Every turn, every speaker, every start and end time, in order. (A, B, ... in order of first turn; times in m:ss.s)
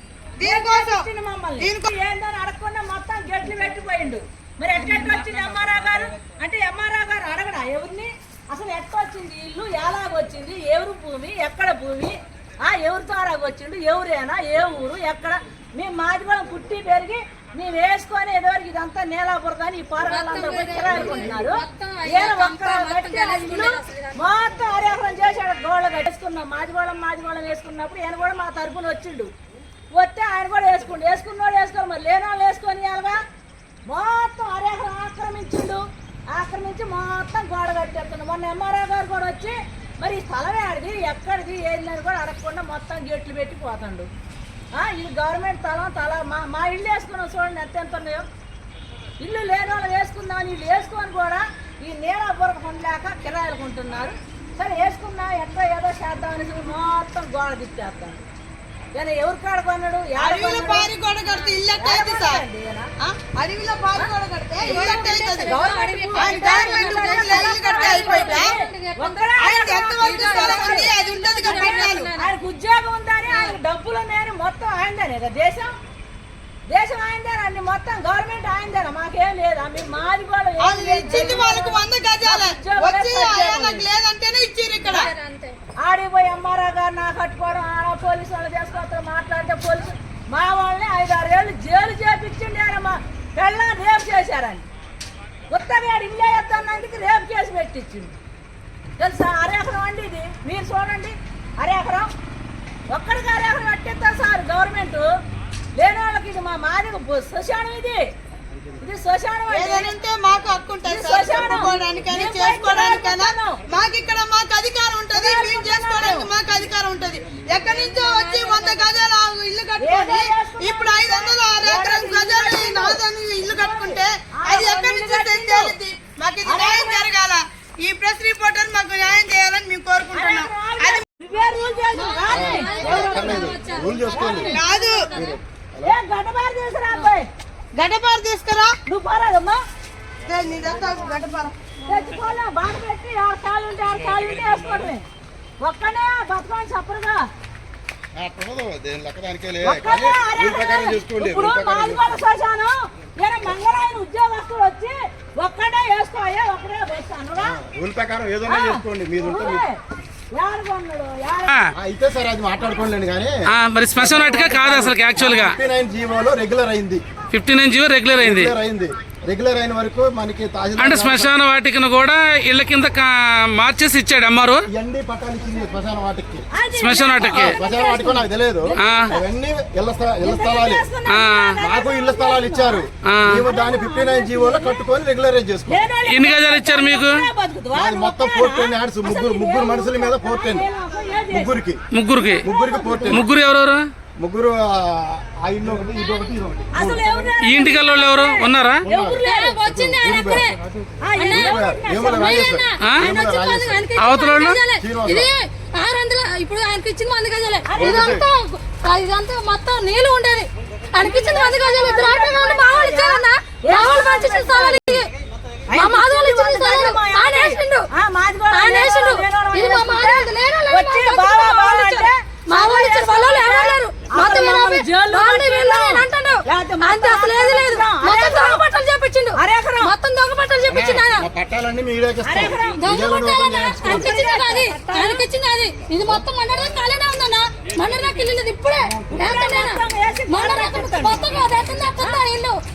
0:00.4-0:01.1 A
0:00.4-0:29.3 B
0:01.6-0:01.9 A
0:20.0-0:24.2 C
0:30.0-0:33.2 B
0:33.9-0:35.8 B
0:36.3-0:44.1 B
0:44.8-0:48.3 B
0:49.2-0:58.3 B
0:59.0-1:00.9 B
1:00.2-1:02.4 A
1:01.2-1:01.6 C
1:01.8-1:02.9 B
1:03.0-1:05.6 A
1:04.6-1:09.3 C
1:04.6-1:10.9 B
1:06.2-1:08.6 A
1:09.4-1:12.1 A
1:10.0-1:12.3 C
1:11.5-1:15.7 B
1:16.7-1:23.9 B
1:20.6-1:25.1 A
1:21.1-1:21.4 C
1:24.8-1:25.6 C
1:25.8-1:34.7 B
1:35.5-1:38.2 B
1:39.0-1:42.1 B
1:42.9-1:45.1 B
1:45.8-1:48.0 B
1:48.8-1:49.9 B
1:49.5-2:11.0 A
1:50.8-1:53.6 B
1:55.1-1:56.3 B
1:57.6-1:58.9 C
1:59.8-2:05.8 B
2:06.4-2:07.1 B
2:10.1-2:13.5 B
2:11.9-2:15.4 C
2:12.3-2:14.6 D
2:14.4-2:15.1 A
2:15.1-2:16.0 D
2:15.8-2:17.3 B
2:17.7-2:18.7 A
2:18.9-2:19.6 B
2:20.3-2:21.5 A
2:21.9-2:25.0 B
2:25.6-2:27.3 B
2:28.2-2:32.0 D
2:29.6-2:37.6 B
2:37.4-2:39.6 D
2:38.5-2:39.8 B
2:40.3-2:41.5 B
2:41.8-2:43.4 D
2:43.5-2:45.6 E
2:44.0-2:47.0 D
2:47.3-2:48.5 E
2:48.2-2:51.3 D
2:50.8-2:54.6 E
2:54.7-2:56.4 D
2:56.5-2:59.2 B
2:56.8-2:57.6 E
2:57.3-3:00.8 D
3:00.2-3:02.9 B
3:01.1-3:01.6 E
3:01.6-3:05.8 D
3:03.1-3:03.4 E
3:03.4-3:04.8 B
3:05.7-3:11.6 B
3:06.1-3:07.2 E
3:07.8-3:10.7 D
3:11.3-3:11.8 D
3:11.9-3:12.4 E
3:12.2-3:13.2 B
3:12.4-3:13.2 D
3:13.1-3:13.8 E
3:14.2-3:17.4 D
3:16.8-3:19.6 B
3:17.4-3:18.8 E
3:18.9-3:20.5 D
3:19.2-3:20.5 C
3:21.0-3:22.5 B
3:21.2-3:35.1 C
3:21.3-3:23.9 D
3:22.8-3:23.1 E
3:24.0-3:24.6 E
3:24.8-3:25.3 D
3:27.7-3:28.2 B
3:27.8-3:28.3 D
3:31.0-3:35.0 B
3:35.7-3:48.7 B
3:35.8-3:37.9 C
3:38.5-3:51.2 C
3:49.4-3:49.9 B
3:50.7-3:54.1 D
3:52.2-3:52.8 B
3:52.7-4:02.6 C
3:53.8-3:55.2 B
3:56.0-3:56.3 D
3:59.1-3:59.4 D
3:59.1-4:01.3 B